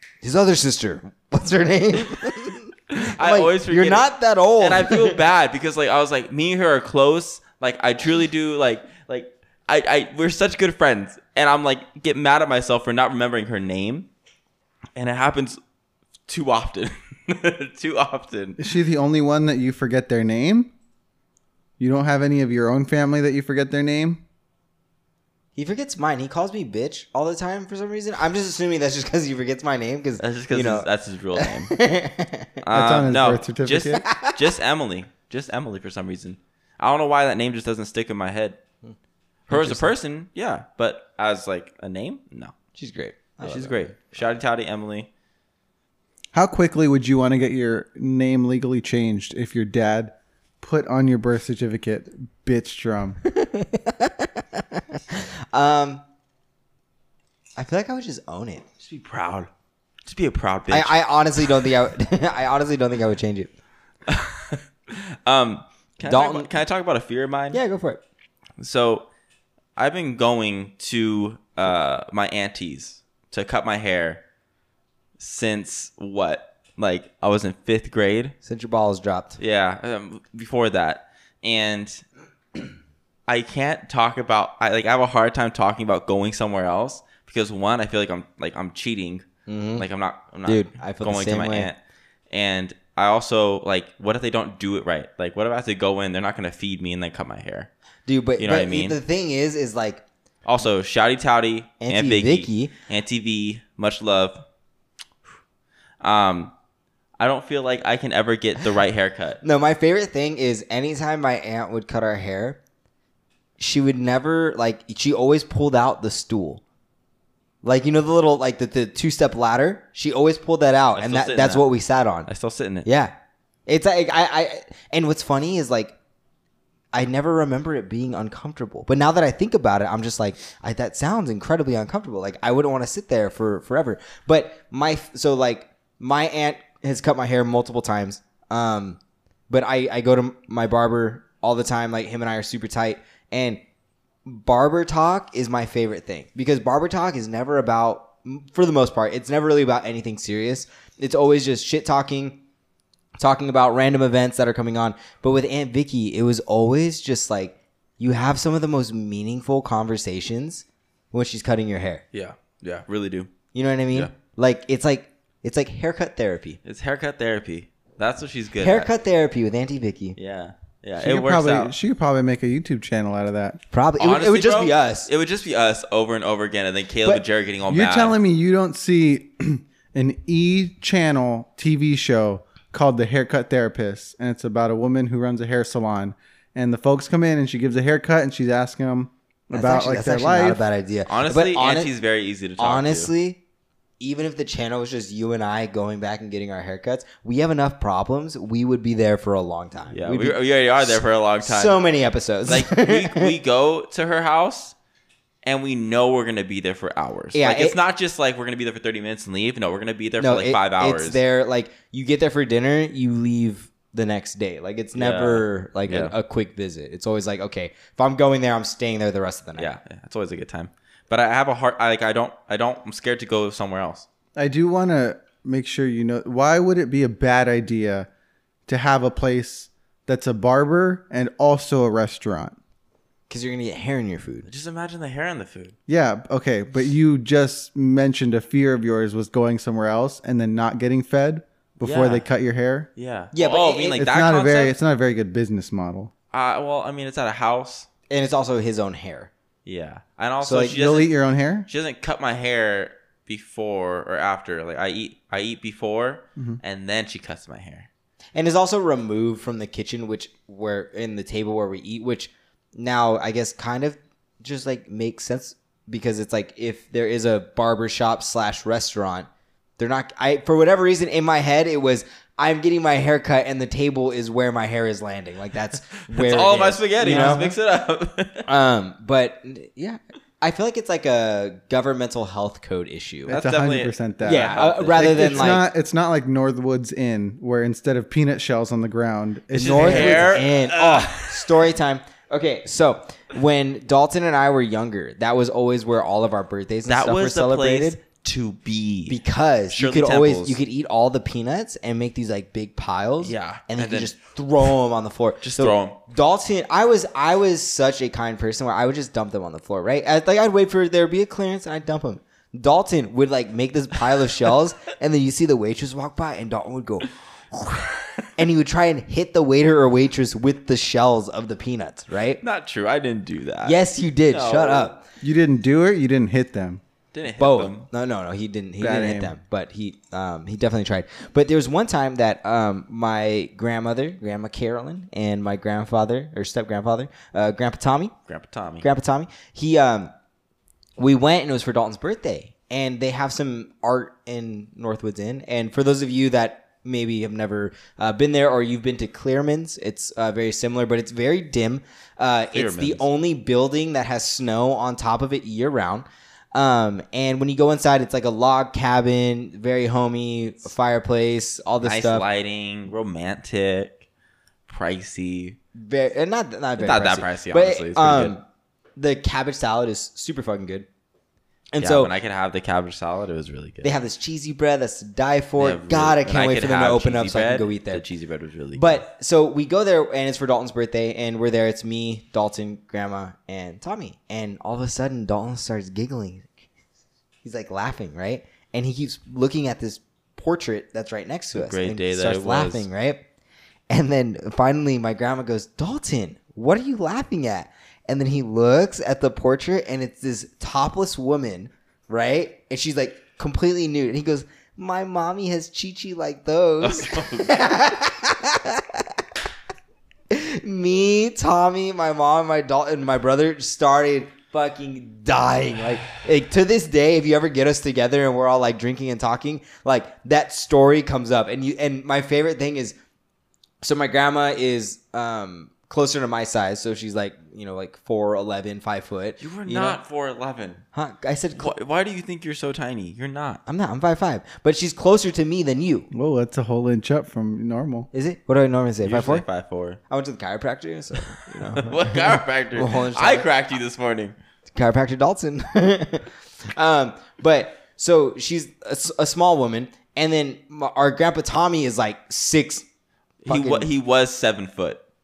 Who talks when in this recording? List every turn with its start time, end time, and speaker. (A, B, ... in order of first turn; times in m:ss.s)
0:00.2-0:05.2 A
0:02.9-0:04.1 B
0:04.6-0:14.1 B
0:15.0-0:15.6 B
0:16.3-0:18.6 B
0:18.6-0:20.7 C
0:21.8-0:24.2 C
0:25.6-0:32.5 A
0:30.2-0:31.8 B
0:32.6-0:38.6 B
0:32.7-0:34.1 C
0:34.0-0:34.4 A
0:39.5-0:39.9 A
0:39.5-0:42.5 B
0:42.8-0:44.1 A
0:43.4-0:45.1 B
0:46.3-0:53.2 C
0:53.3-0:56.0 A
0:57.6-0:58.7 A
0:58.8-0:59.5 B
1:00.0-1:01.0 B
1:00.7-1:03.5 A
1:04.1-1:07.6 B
1:06.0-1:06.5 A
1:07.5-1:08.0 A
1:08.6-1:09.1 B
1:09.8-1:14.2 B
1:15.2-1:18.4 B
1:18.4-1:19.4 A
1:19.4-1:22.0 B
1:23.3-1:29.3 B
1:29.5-1:29.8 A
1:29.8-1:31.8 B
1:30.5-1:31.7 A
1:32.3-1:37.7 B
1:38.1-1:40.0 A
1:38.4-1:39.0 B
1:40.4-1:44.4 B
1:41.8-1:42.7 A
1:46.0-1:46.5 B
1:47.2-1:49.4 B
1:49.4-1:52.6 A
1:53.6-1:56.6 A
1:57.6-2:02.3 A
2:01.0-2:01.7 B
2:02.3-2:02.9 B
2:02.8-2:03.1 A
2:03.7-2:05.9 A
2:06.9-2:19.0 A
2:19.5-2:23.6 A
2:24.3-2:32.4 A
2:33.2-2:42.0 A
2:42.1-2:43.3 B
2:43.5-2:46.6 A
2:46.6-2:48.9 B
2:48.6-2:50.2 A
2:50.2-2:51.7 B
2:51.0-2:53.6 C
2:53.7-2:55.1 A
2:54.0-2:58.2 B
2:57.7-3:10.6 C
3:09.5-3:11.9 A
3:11.1-3:13.1 B
3:12.6-3:13.4 A
3:14.0-3:23.4 A
3:19.9-3:21.8 B
3:22.5-3:24.8 B
3:25.4-3:31.2 B
3:27.3-3:27.8 A
3:30.2-3:39.7 A
3:35.0-3:36.1 B
3:39.6-3:44.1 B
3:44.4-3:48.1 C
3:48.7-3:52.6 C
3:53.3-3:54.5 A
3:54.5-3:55.8 B
3:55.9-4:02.9 C
4:01.8-4:02.3 B
4:03.0-4:04.7 B
4:03.3-4:04.0 A
4:04.0-4:06.1 C
4:06.3-4:07.9 B
4:08.1-4:09.3 A
4:09.7-4:11.1 B
4:10.4-4:10.8 A
4:10.7-4:11.7 C
4:11.7-4:17.9 B
4:18.4-4:29.3 A
4:29.8-4:37.5 A
4:36.0-4:38.5 B
4:37.0-4:37.5 C
4:38.5-4:43.4 A
4:43.3-4:45.6 B
4:43.3-4:50.4 C
4:44.2-4:45.6 A
4:49.5-4:51.6 B
4:49.6-4:58.0 A
4:56.9-4:59.2 B
4:59.1-5:17.1 A
4:59.7-5:00.6 B
5:03.2-5:04.1 B
5:05.4-5:06.0 B
5:18.4-5:22.4 A
5:22.4-5:24.9 B
5:23.6-5:25.0 A
5:25.2-5:26.8 C
5:27.1-5:27.9 B
5:27.4-5:38.1 A
5:28.8-5:29.4 C
5:38.3-5:38.9 B
5:38.8-5:40.1 A
5:41.0-6:02.2 A
5:52.5-5:53.1 B
6:01.8-6:04.0 B
6:04.7-6:05.6 B
6:05.8-6:08.4 A
6:06.8-6:08.4 B
6:09.0-6:10.9 A
6:11.7-6:12.1 A
6:11.8-6:13.9 B
6:13.8-6:18.0 A
6:15.6-6:19.0 B
6:18.8-6:26.6 A
6:27.4-6:33.2 A
6:31.5-6:32.9 B
6:33.9-6:49.0 A
6:46.8-6:47.6 B
6:50.3-7:03.0 A
7:03.8-7:10.0 A
7:09.4-7:10.8 B
7:10.9-7:11.7 A
7:11.6-7:13.6 B
7:13.7-7:16.1 A
7:16.1-7:18.1 C
7:18.1-7:19.4 A
7:19.0-7:20.0 B
7:20.1-7:23.5 A
7:21.7-7:24.4 B
7:24.7-7:32.8 A
7:33.4-7:35.0 B
7:33.5-7:33.9 A